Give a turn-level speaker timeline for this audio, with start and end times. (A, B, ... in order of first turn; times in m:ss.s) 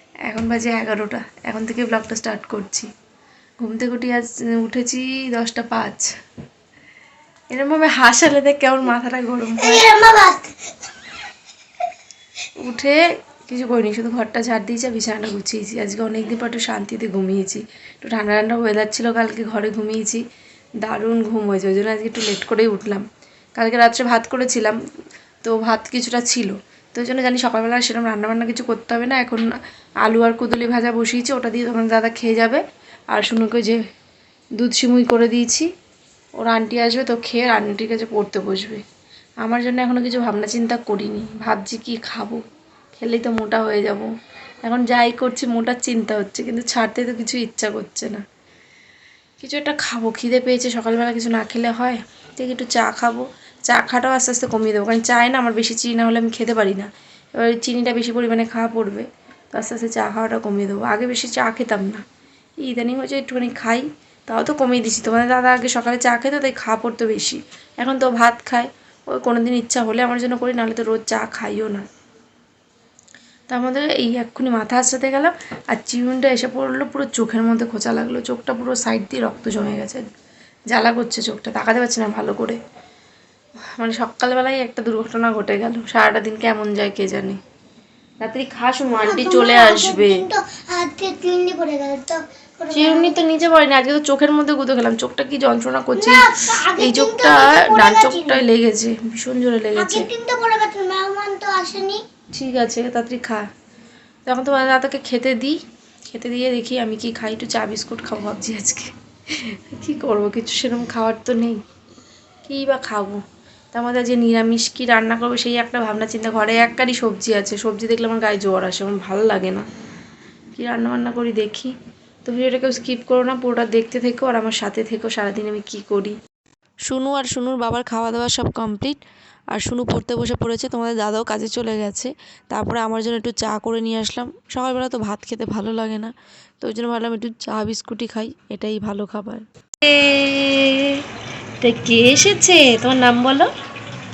0:00.3-0:02.9 A
0:03.6-0:06.1 A
0:07.5-0:09.9 A
0:09.6-0:10.5 B
0:12.6-0:20.2 A
0:20.8-0:23.0 A
0:23.6-0:24.8 A
0:25.4-0:29.5 A
0:30.0-0:32.6 A
0:33.1-0:33.8 A
0:34.6-0:35.7 A
0:36.4-0:38.8 A
0:39.4-0:42.4 A
0:43.0-0:44.1 A
0:44.6-0:48.2 A
0:49.4-1:02.0 A
1:02.6-1:11.8 A
1:13.5-1:20.0 A
1:20.7-1:22.6 A
1:23.8-1:27.4 A
1:28.2-1:30.2 A
1:29.0-1:33.2 B
1:32.7-1:40.1 A
1:36.0-1:38.4 B
1:39.8-1:42.0 B
1:42.3-1:43.4 A
1:44.3-1:45.6 A
1:46.1-1:48.9 A
1:49.4-1:51.6 A
1:52.4-1:53.2 A
1:53.7-1:59.6 A
2:00.6-2:01.7 A
2:02.3-2:06.2 A
2:06.9-2:09.0 A
2:09.6-2:21.0 A
2:21.6-2:23.5 A